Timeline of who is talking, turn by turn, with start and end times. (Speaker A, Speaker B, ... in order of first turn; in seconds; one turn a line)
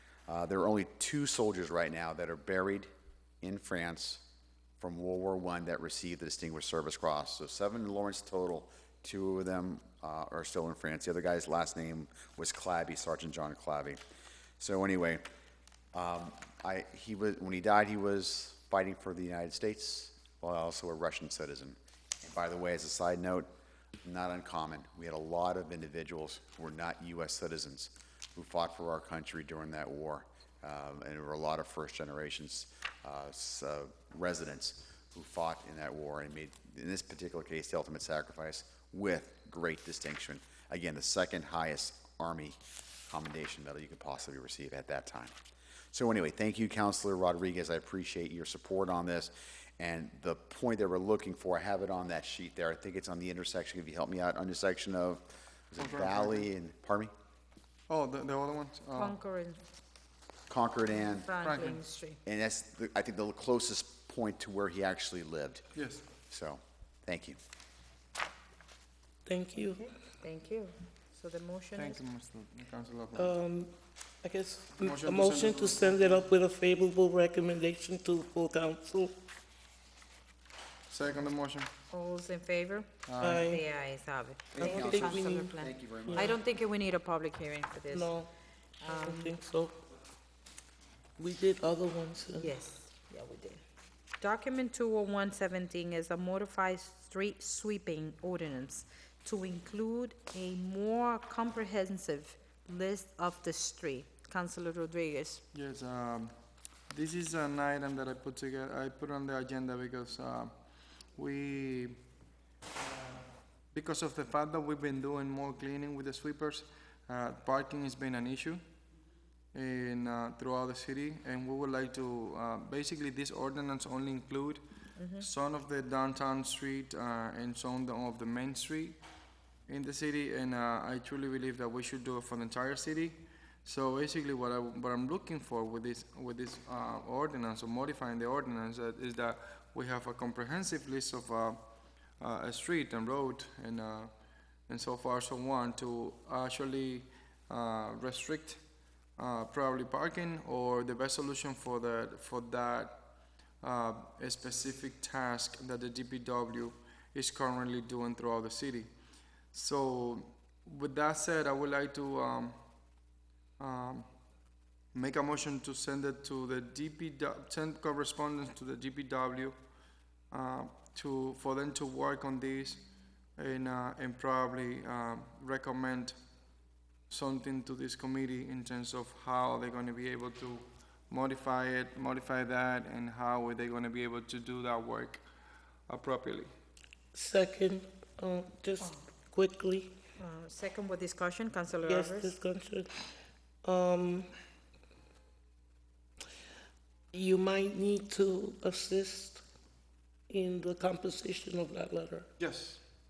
Speaker A: 0.3-2.9
Speaker A: 3.4-4.2
Speaker A: 4.8-14.0
Speaker A: 14.6-15.2
Speaker A: 15.9-23.5
Speaker A: 24.0-45.4
Speaker A: 45.9-57.1
Speaker B: 55.8-56.5
Speaker B: 57.9-59.1
Speaker C: 59.0-59.6
Speaker A: 60.5-61.3
Speaker C: 60.9-62.2
Speaker B: 61.4-61.8
Speaker A: 62.2-65.7
Speaker B: 65.7-66.0
Speaker A: 66.3-67.4
Speaker D: 69.2-69.9
Speaker C: 70.2-72.0
Speaker B: 71.8-73.3
Speaker D: 73.1-79.1
Speaker B: 74.8-76.3
Speaker B: 80.9-81.7
Speaker C: 81.9-88.1
Speaker B: 83.0-83.5
Speaker D: 83.2-83.6
Speaker A: 84.5-86.4
Speaker D: 84.6-86.3
Speaker D: 87.9-88.3
Speaker C: 88.8-89.3
Speaker D: 88.8-89.8
Speaker D: 91.2-92.5
Speaker C: 92.4-93.6
Speaker C: 94.2-105.4
Speaker B: 105.5-110.5
Speaker B: 111.1-112.0
Speaker B: 112.8-118.6
Speaker B: 119.5-129.0
Speaker C: 125.0-125.3
Speaker B: 129.7-144.1
Speaker B: 144.7-153.0
Speaker B: 153.6-158.9
Speaker B: 159.5-162.6
Speaker B: 163.6-164.1
Speaker B: 164.9-169.6
Speaker B: 170.3-176.2
Speaker B: 177.1-185.2
Speaker B: 185.9-186.5
Speaker D: 187.1-189.9
Speaker C: 188.8-189.1
Speaker C: 190.2-192.3
Speaker D: 191.8-192.9
Speaker D: 193.6-194.3
Speaker D: 197.1-199.4
Speaker D: 200.3-202.3
Speaker B: 202.4-202.8